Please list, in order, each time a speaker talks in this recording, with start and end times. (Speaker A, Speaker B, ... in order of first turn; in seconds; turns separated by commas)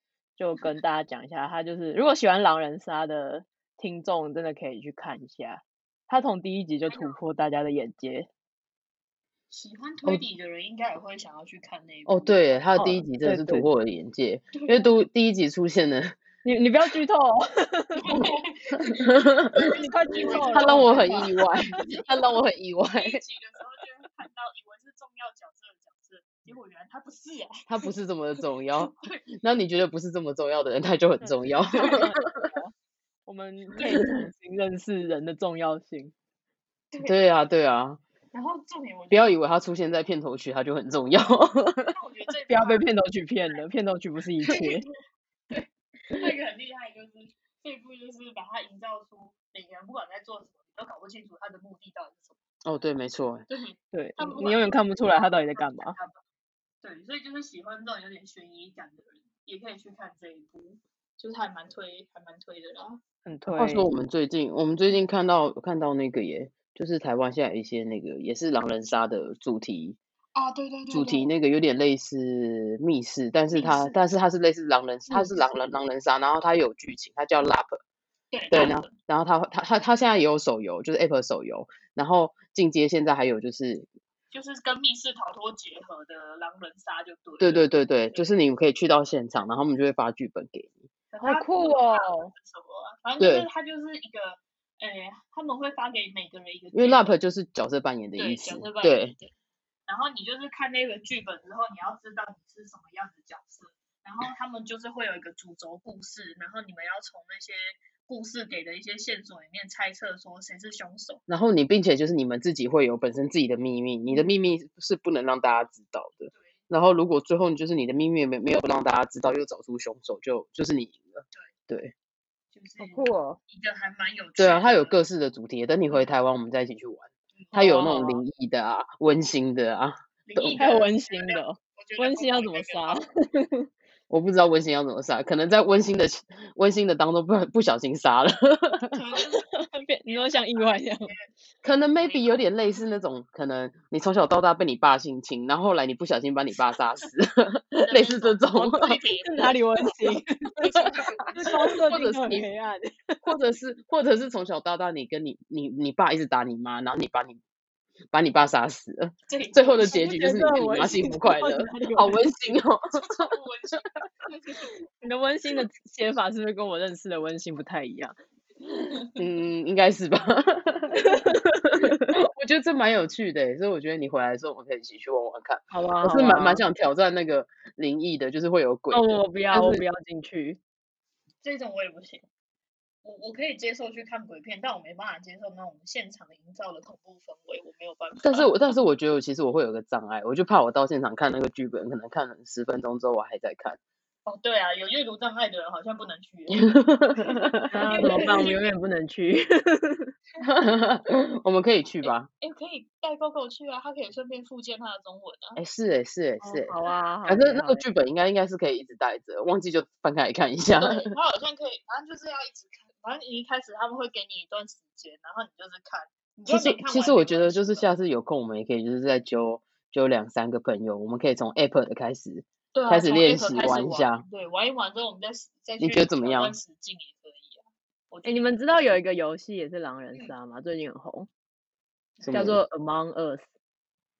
Speaker A: 0.4-8.3, Speaker B: 6.9-7.2, Speaker B: 9.5-12.4, Speaker C: 12.1-16.2, Speaker A: 12.8-13.7, Speaker B: 14.5-14.9, Speaker A: 16.4-18.3, Speaker B: 18.0-22.1, Speaker C: 18.8-19.6, Speaker A: 19.6-21.4, Speaker C: 20.3-23.2, Speaker B: 22.9-27.9, Speaker C: 27.7-32.4, Speaker B: 28.9-29.3, Speaker A: 31.2-32.7, Speaker A: 33.2-36.1, Speaker C: 37.0-38.0, Speaker B: 38.3-39.3, Speaker C: 39.1-41.9, Speaker B: 41.9-42.9, Speaker A: 42.5-44.9, Speaker B: 44.4-44.9, Speaker B: 45.5-52.4, Speaker C: 52.6-53.4, Speaker B: 53.5-56.2, Speaker A: 53.9-55.9, Speaker B: 56.8-63.0, Speaker A: 63.2-63.9, Speaker C: 63.5-70.0, Speaker B: 70.3-71.3, Speaker C: 70.9-77.8, Speaker B: 73.5-74.0, Speaker B: 75.1-75.4, Speaker B: 78.3-78.9, Speaker C: 78.5-83.9, Speaker B: 84.3-88.3, Speaker C: 87.4-90.9, Speaker B: 91.1-97.2, Speaker A: 91.2-92.3, Speaker C: 93.2-93.5, Speaker C: 96.7-99.1, Speaker B: 98.2-99.3, Speaker B: 99.9-111.2, Speaker C: 111.3-121.9, Speaker B: 116.3-116.6, Speaker B: 122.5-125.0, Speaker A: 122.8-123.4, Speaker C: 124.4-130.6, Speaker B: 127.3-128.1, Speaker A: 127.6-128.1, Speaker B: 130.3-133.0, Speaker A: 130.6-133.7, Speaker C: 134.1-138.9, Speaker B: 138.9-142.5, Speaker A: 139.8-141.1, Speaker C: 141.6-149.0, Speaker B: 147.8-151.9, Speaker A: 149.2-153.2, Speaker C: 151.7-152.5, Speaker C: 153.2-157.4, Speaker C: 158.1-163.3, Speaker B: 159.3-160.1, Speaker A: 159.9-162.2, Speaker B: 162.9-165.1, Speaker A: 165.0-168.1, Speaker C: 169.1-171.1, Speaker A: 171.0-172.1, Speaker C: 172.1-179.8, Speaker A: 175.7-176.6, Speaker A: 178.9-180.6, Speaker B: 181.4-182.2, Speaker B: 183.0-188.7, Speaker C: 188.2-193.8, Speaker B: 194.2-198.6, Speaker C: 196.5-198.4, Speaker A: 197.7-200.1, Speaker C: 200.4-202.3, Speaker B: 202.0-205.6, Speaker C: 205.6-206.7, Speaker A: 206.4-207.9, Speaker C: 207.2-211.1, Speaker B: 210.8-217.9, Speaker C: 216.5-224.2, Speaker B: 222.7-228.9, Speaker C: 225.8-226.5, Speaker A: 228.2-231.3, Speaker B: 232.2-232.5, Speaker C: 232.2-232.6, Speaker A: 232.3-233.5